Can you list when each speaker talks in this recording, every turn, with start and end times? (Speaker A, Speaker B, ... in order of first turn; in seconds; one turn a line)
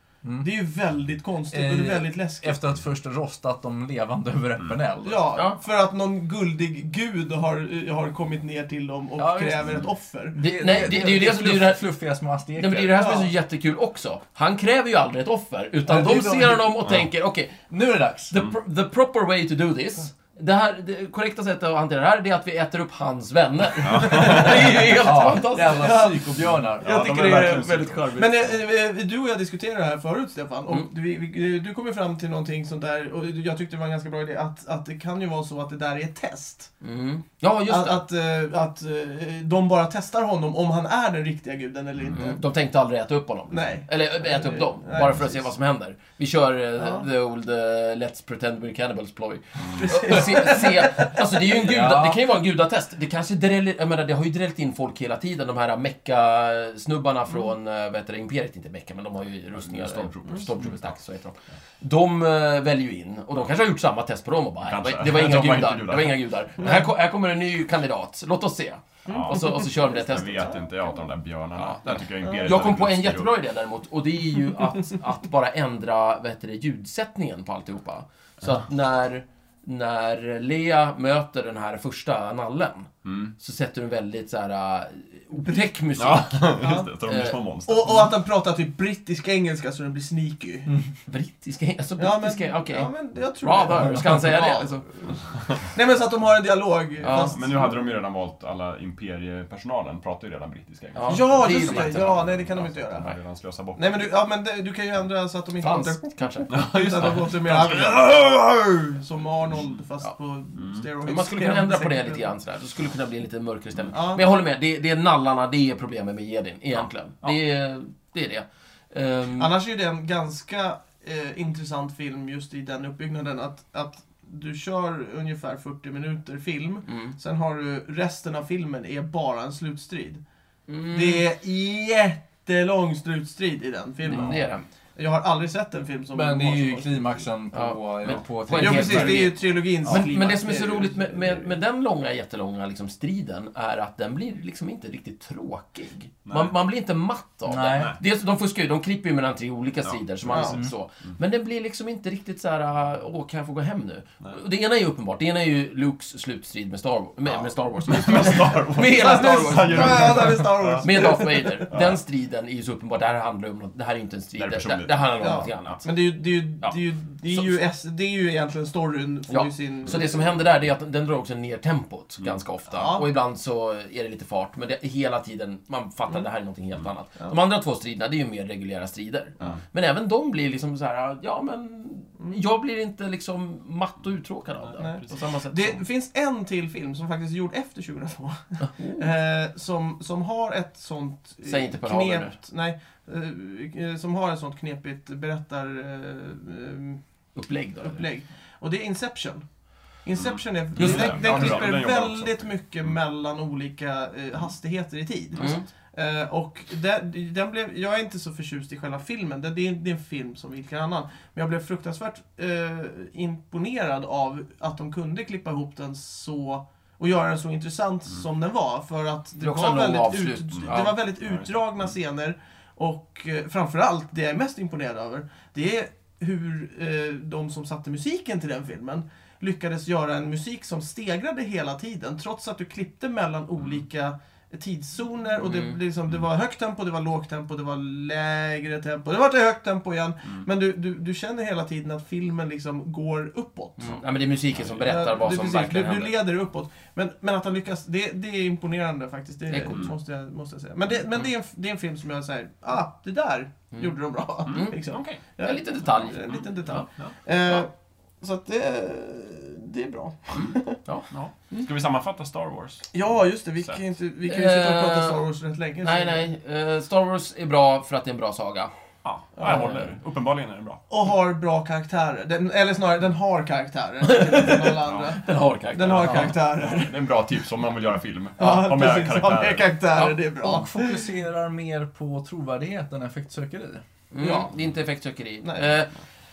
Speaker A: 0.2-0.5
Speaker B: 0.4-2.6
Speaker A: 1.5-5.3
Speaker B: 5.0-10.4
Speaker A: 9.2-9.8
Speaker A: 10.3-13.1
Speaker C: 10.3-11.8
Speaker C: 12.6-17.7
Speaker B: 13.0-13.3
Speaker A: 15.9-16.8
Speaker A: 17.7-18.4
Speaker C: 18.3-26.1
Speaker D: 23.8-24.8
Speaker A: 24.3-27.5
Speaker B: 25.7-36.7
Speaker D: 26.8-28.6
Speaker C: 36.8-38.0
Speaker B: 37.7-42.4
Speaker C: 42.1-70.6
Speaker B: 43.5-45.5
Speaker B: 46.8-47.1
Speaker B: 49.7-51.2
Speaker A: 51.5-52.2
Speaker D: 59.5-60.9
Speaker D: 64.6-66.2
Speaker B: 69.0-70.7
Speaker D: 69.1-73.3
Speaker C: 71.6-87.4
Speaker B: 72.2-72.6
Speaker D: 83.0-83.3
Speaker D: 86.0-88.1
Speaker B: 86.6-86.9
Speaker B: 87.7-90.7
Speaker C: 91.1-95.1
Speaker B: 92.0-94.8
Speaker B: 95.7-97.8
Speaker C: 97.0-97.4
Speaker D: 97.1-104.0
Speaker C: 100.9-102.2
Speaker B: 101.1-103.1
Speaker B: 103.8-112.2
Speaker C: 105.6-107.0
Speaker D: 106.5-108.0
Speaker D: 110.6-110.9
Speaker C: 111.0-119.5
Speaker B: 113.9-114.3
Speaker B: 119.4-130.2
Speaker C: 126.9-127.2
Speaker C: 130.7-131.2
Speaker B: 130.9-137.3
Speaker C: 134.1-134.6
Speaker A: 136.1-139.3
Speaker C: 137.5-165.9
Speaker B: 138.6-141.5
Speaker D: 146.3-146.5
Speaker A: 147.5-148.0
Speaker D: 147.7-148.0
Speaker B: 150.3-150.6
Speaker A: 150.4-150.7
Speaker D: 157.3-160.9
Speaker B: 158.9-161.7
Speaker D: 161.7-162.0
Speaker D: 164.4-165.8
Speaker B: 165.2-170.4
Speaker C: 167.3-167.6
Speaker C: 169.3-185.8
Speaker B: 172.7-173.1
Speaker D: 184.6-185.1
Speaker B: 184.8-197.0
Speaker C: 188.6-189.1
Speaker C: 191.4-192.3
Speaker C: 197.4-198.1
Speaker B: 197.8-199.4
Speaker B: 200.0-244.0
Speaker D: 200.2-202.9
Speaker C: 205.4-205.7
Speaker C: 219.4-220.9
Speaker D: 220.5-221.9
Speaker C: 235.4-235.8
Speaker C: 243.8-246.1
Speaker B: 244.8-257.7
Speaker C: 249.5-249.9
Speaker D: 249.7-249.9
Speaker C: 253.7-256.9
Speaker D: 254.5-255.2
Speaker D: 256.1-257.1
Speaker B: 258.2-260.8
Speaker D: 261.1-263.8
Speaker B: 262.9-266.3
Speaker C: 264.3-265.3
Speaker C: 265.8-268.7
Speaker D: 269.0-270.8
Speaker B: 269.4-269.7
Speaker C: 269.4-269.9
Speaker B: 270.9-277.1
Speaker C: 274.0-276.4
Speaker D: 274.8-275.2
Speaker D: 275.8-279.7
Speaker B: 278.4-281.0
Speaker A: 280.4-283.8
Speaker C: 284.1-285.9
Speaker B: 284.2-284.5
Speaker B: 285.4-285.7